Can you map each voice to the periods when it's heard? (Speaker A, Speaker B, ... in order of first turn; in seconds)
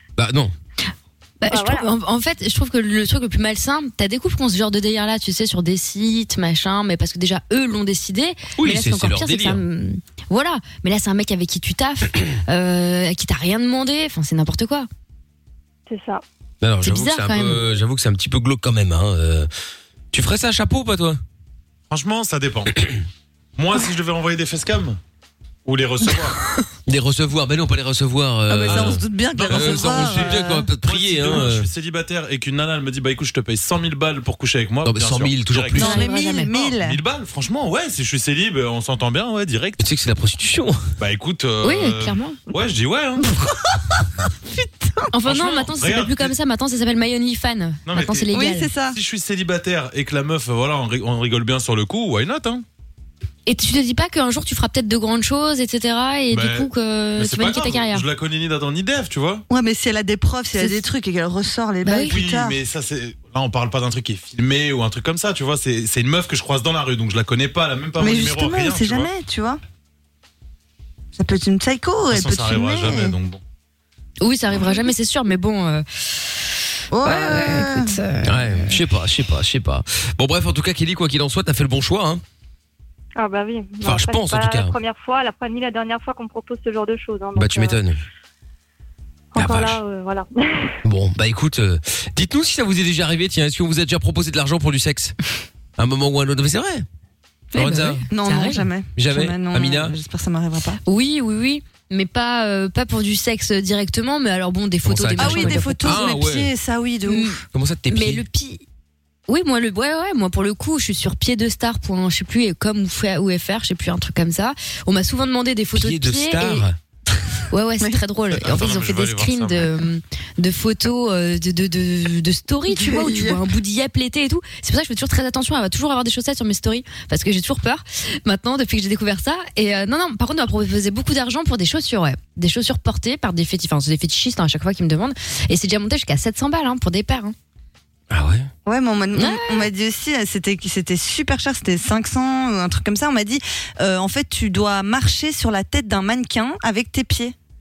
Speaker A: 0.2-0.5, 8.6-9.6, 16.6-19.5, 20.1-21.2, 26.9-31.7, 34.8-36.0, 39.8-40.9, 78.2-82.2, 83.8-84.8, 87.4-88.0, 89.4-89.8, 90.8-95.2, 95.8-96.9, 97.5-98.0, 99.0-100.0, 104.8-106.5, 107.5-108.2, 115.8-116.8, 138.1-138.5
Speaker B: 1.4-14.9, 16.8-17.6, 35.8-36.5, 41.6-42.4, 45.1-48.7, 53.5-58.1, 60.5-60.9, 61.8-62.2, 74.2-75.8, 77.0-78.8, 97.5-98.7, 100.8-106.1, 107.1-108.6, 109.3-116.7, 117.5-137.3, 139.2-139.7
Speaker C: 1.5-1.9, 15.9-16.2, 83.2-87.8, 89.3-90.8
Speaker D: 21.9-22.8, 23.6-25.0, 25.7-26.4, 28.7-39.8, 41.0-43.3, 45.3-46.3, 47.9-48.3, 48.9-52.6, 56.3-59.5, 62.1-69.1, 72.1-73.4, 118.4-119.7
Speaker E: 28.5-30.7, 35.7-37.0, 43.2-45.1, 48.3-49.0, 59.5-62.6, 68.0-69.6, 71.2-73.2, 76.9-77.9, 98.1-100.8, 105.2-107.4, 122.7-123.4, 138.7-147.3